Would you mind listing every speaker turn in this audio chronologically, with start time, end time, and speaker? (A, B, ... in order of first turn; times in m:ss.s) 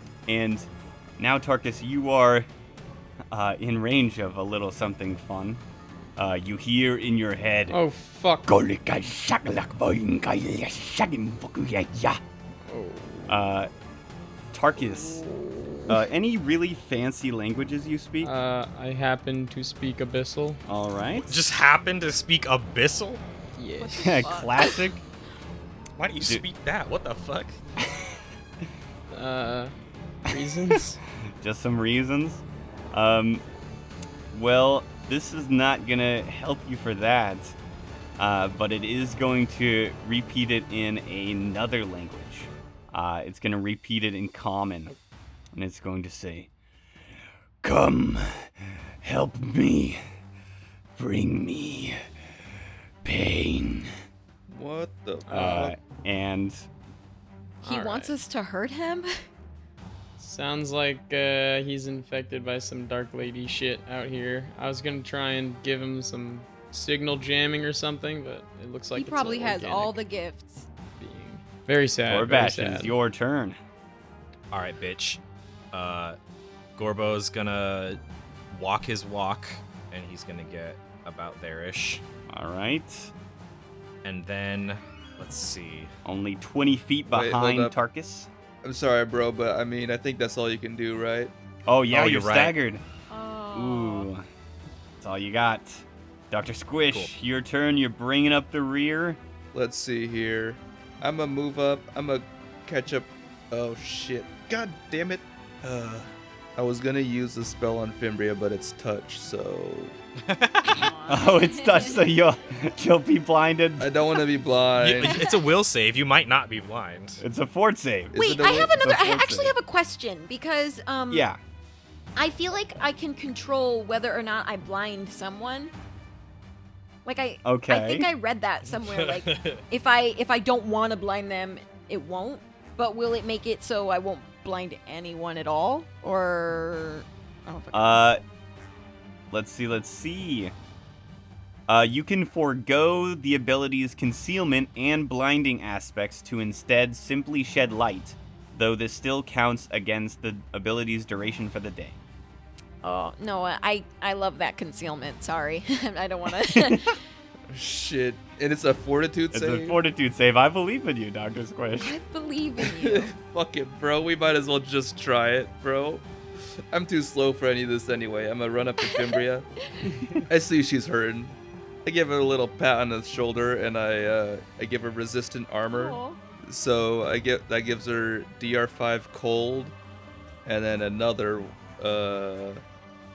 0:00.3-0:02.5 A
0:03.3-0:05.6 A
0:06.2-0:07.8 A
0:07.7-0:08.5 B
0:08.5-0:12.2 A
0:12.7-0:13.6 B
0:13.3-0:13.7 A
0:14.5-0:15.2 A
0:14.8-0:16.0 B
0:15.9-0:18.3 A
0:18.2-0:20.6 B
0:20.7-0:21.4 A
0:21.1-0:23.2 C
0:23.6-0:24.3 B
0:23.8-0:24.9 D
0:23.9-0:25.0 A
0:26.0-0:27.6 C
0:27.8-0:28.2 A
0:29.1-0:29.7 B
0:30.3-0:31.0 B
0:31.4-0:33.4 A
0:34.3-0:37.6 A
0:38.2-0:44.9 A
0:45.5-0:46.5 A
0:47.6-0:50.0 A
0:51.0-0:52.0 A
0:53.0-0:53.9 A
0:54.5-0:55.7 E
0:55.3-0:55.7 B
0:55.3-0:56.6 A
0:57.6-0:58.1 B
0:57.6-0:59.1 D
1:00.2-1:10.0 B
1:09.0-1:10.7 D
1:11.0-1:12.9 B
1:12.1-1:13.6 A
1:14.5-1:15.2 C
1:15.7-1:16.2 C
1:16.8-1:18.0 C
1:18.5-1:22.0 C
1:22.3-1:23.1 A
1:24.0-1:25.9 C
1:26.0-1:28.3 A
1:27.1-1:27.8 E
1:28.6-1:31.3 E
1:31.7-1:32.8 A
1:31.9-1:32.5 C
1:33.1-1:34.1 D
1:33.5-1:34.2 A
1:35.0-1:39.2 A
1:39.5-1:50.0 E
1:50.2-1:50.9 C
1:50.6-1:52.1 D
1:51.1-1:53.9 A
1:53.8-1:55.2 E
1:54.8-1:57.2 C
1:55.0-1:55.3 D
1:57.2-1:59.6 A
1:58.2-2:01.3 D
1:58.2-1:58.7 E
2:01.1-2:01.4 A
2:02.2-2:05.7 D
2:07.0-2:18.1 D
2:07.4-2:08.1 A
2:08.7-2:09.6 C
2:17.7-2:18.2 A
2:19.3-2:20.5 A
2:21.7-2:32.0 A
2:32.8-2:37.0 D
2:37.5-2:39.8 E
2:39.3-2:42.0 A
2:41.8-2:43.1 D
2:42.7-2:46.1 E
2:46.7-2:49.5 E
2:48.8-2:49.2 D
2:50.3-2:59.8 E
2:55.7-2:56.2 D
3:00.4-3:02.6 E